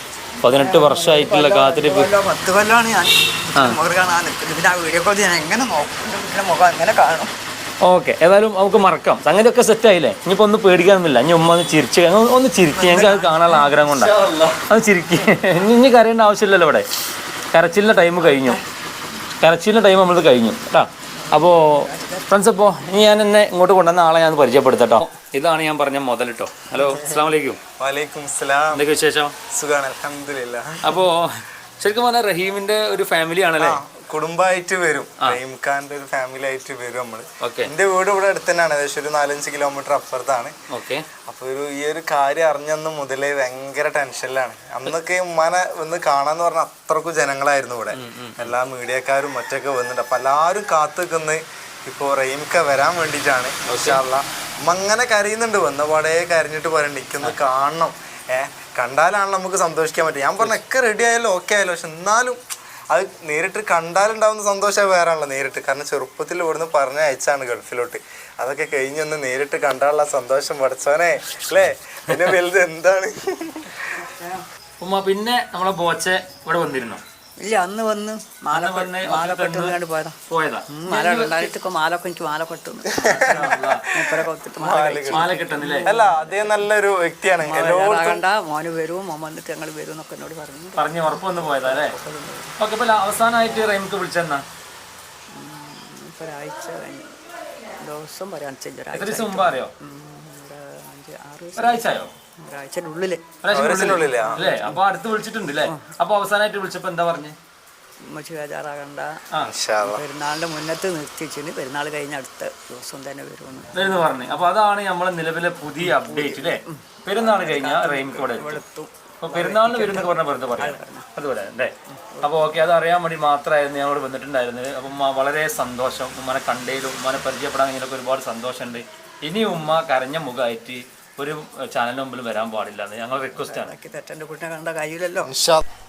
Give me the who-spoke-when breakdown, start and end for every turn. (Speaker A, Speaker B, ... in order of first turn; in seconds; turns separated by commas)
Speaker A: 0.4-2.1, Speaker B: 0.4-7.3, Speaker A: 7.8-14.2, Speaker B: 12.7-13.8, Speaker C: 13.9-14.6, Speaker A: 14.7-16.9, Speaker A: 17.5-18.6, Speaker B: 18.2-18.6, Speaker A: 19.4-27.6, Speaker B: 21.2-22.4, Speaker C: 26.8-27.2, Speaker C: 27.8-28.9, Speaker A: 28.7-29.4, Speaker C: 29.5-31.0, Speaker A: 30.8-33.8, Speaker C: 33.6-40.5, Speaker A: 37.4-37.7, Speaker A: 40.7-41.1, Speaker C: 41.3-62.4, Speaker A: 47.9-48.5, Speaker A: 53.7-54.0, Speaker C: 62.9-73.8, Speaker B: 73.8-74.5, Speaker A: 74.8-77.0, Speaker B: 77.4-80.2, Speaker A: 78.5-79.8, Speaker A: 80.3-81.5, Speaker B: 80.7-86.6, Speaker C: 83.0-85.3, Speaker A: 83.2-83.9, Speaker A: 85.1-86.0, Speaker C: 85.8-88.2, Speaker B: 87.4-92.5, Speaker A: 90.8-91.9, Speaker A: 92.6-94.4, Speaker B: 95.3-97.1, Speaker B: 97.8-103.2, Speaker A: 98.9-99.7, Speaker A: 101.6-102.1, Speaker A: 103.4-107.4, Speaker C: 103.5-104.8, Speaker B: 104.1-104.4, Speaker B: 108.0-109.2, Speaker C: 109.5-110.0, Speaker B: 109.8-114.0, Speaker A: 113.7-118.6, Speaker B: 115.8-121.1, Speaker A: 119.2-133.7, Speaker B: 122.0-122.4, Speaker B: 133.4-135.3, Speaker C: 135.3-135.6